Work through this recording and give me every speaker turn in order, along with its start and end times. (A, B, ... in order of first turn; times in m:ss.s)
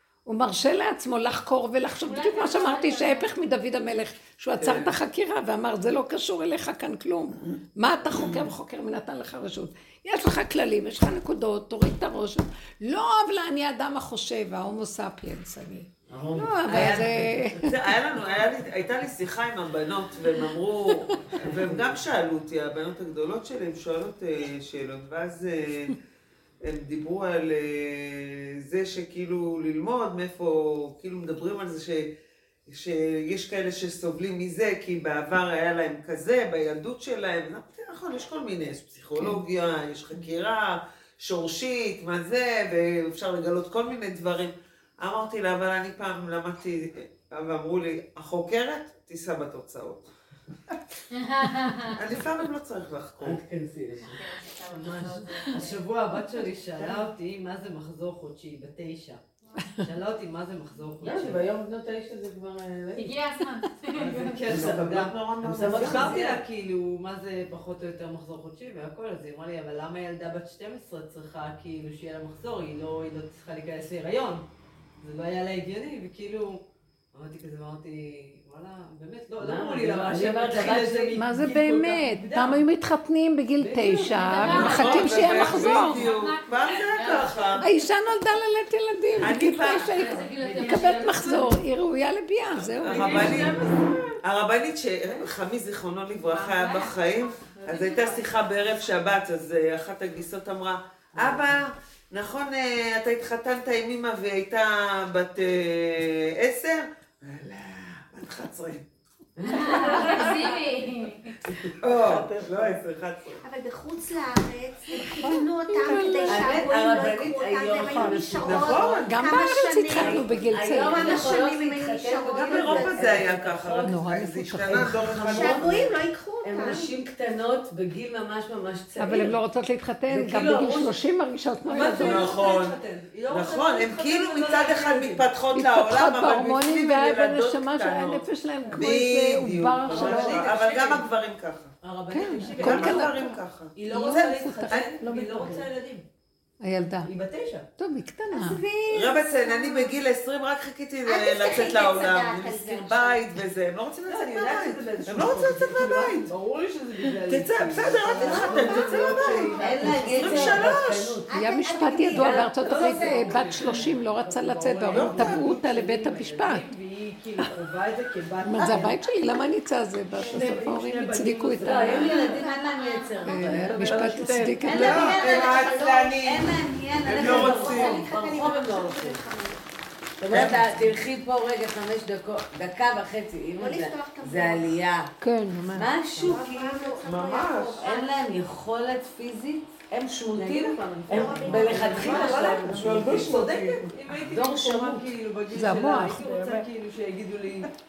0:00.2-0:17.9 A
0:02.0-0:03.3 B
0:04.6-0:04.9 C
0:16.1-0:17.6 D
0:17.5-0:26.0 C
0:21.0-0:21.4 A
0:21.3-0:21.9 D
0:26.6-0:32.1 C
0:32.7-0:50.1 C
0:51.1-0:52.0 B
0:51.9-0:53.4 C
0:53.2-0:57.1 D
0:54.0-0:55.8 B
0:55.5-0:59.2 E
0:59.6-0:59.9 A
0:59.8-1:01.4 E
1:01.0-1:03.2 D
1:03.0-1:04.4 B
1:04.0-1:14.4 E
1:04.0-1:06.2 C
1:04.3-1:06.4 D
1:15.0-1:16.6 E
1:17.1-1:22.6 E
1:19.4-1:21.2 D
1:21.1-1:26.1 A
1:23.6-1:25.3 E
1:24.1-1:27.7 B
1:24.4-1:27.7 C
1:27.6-1:33.4 A
1:29.2-1:30.1 C
1:29.9-1:31.5 B
1:30.3-1:31.1 D
1:30.4-1:31.5 E
1:32.6-1:33.7 C
1:32.8-1:34.1 E
1:34.2-1:48.8 C
1:36.2-1:38.5 B
1:41.1-1:41.6 D
1:49.4-1:50.6 D
1:49.4-1:51.4 B
1:51.7-1:53.4 C
1:53.4-2:00.3 F
1:54.9-1:56.8 A
1:56.2-1:59.0 D
1:58.4-1:59.1 C
1:59.0-2:01.4 A
1:59.9-2:04.0 D
2:00.8-2:03.3 F
2:02.3-2:05.9 C
2:03.8-2:05.4 A
2:04.7-2:05.9 D
2:05.2-2:06.9 F
2:06.4-2:09.4 D
2:09.0-2:12.4 A
2:10.1-2:11.0 E
2:11.6-2:15.3 E
2:11.8-2:12.8 C
2:13.3-2:21.7 C
2:15.5-2:20.5 A
2:19.8-2:21.1 E
2:21.8-2:23.2 E
2:22.1-2:25.7 A
2:22.6-2:23.7 C
2:23.8-2:26.0 E
2:26.6-2:27.1 A
2:27.0-2:27.6 E
2:27.8-2:28.6 A
2:28.3-2:30.0 F
2:28.9-2:36.3 C
2:31.0-2:33.2 F
2:34.1-2:40.4 E
2:37.3-2:41.2 C
2:38.1-2:41.3 D
2:38.2-2:43.8 F
2:41.3-2:46.6 A
2:41.8-2:42.9 D
2:42.1-2:49.0 E
2:44.9-2:45.5 C
2:48.4-2:52.2 A
2:48.6-2:48.8 D
2:50.1-2:50.6 F
2:50.2-2:52.3 E
2:51.6-2:59.2 D
2:51.7-2:56.5 F
2:53.2-2:55.2 A
2:54.7-2:56.5 C
2:57.0-2:58.0 C
2:57.0-2:59.7 F
2:57.3-2:58.0 A
3:00.2-3:05.1 D
3:00.3-3:00.6 C
3:03.6-3:04.8 F
3:05.2-3:05.9 A
3:05.7-3:07.0 D
3:06.2-3:08.2 F
3:07.0-3:07.8 C
3:07.8-3:13.4 D
3:10.3-3:17.7 E
3:11.1-3:12.6 F
3:11.7-3:13.8 C
3:14.0-3:14.4 A
3:14.3-3:15.1 D
3:15.5-3:16.6 A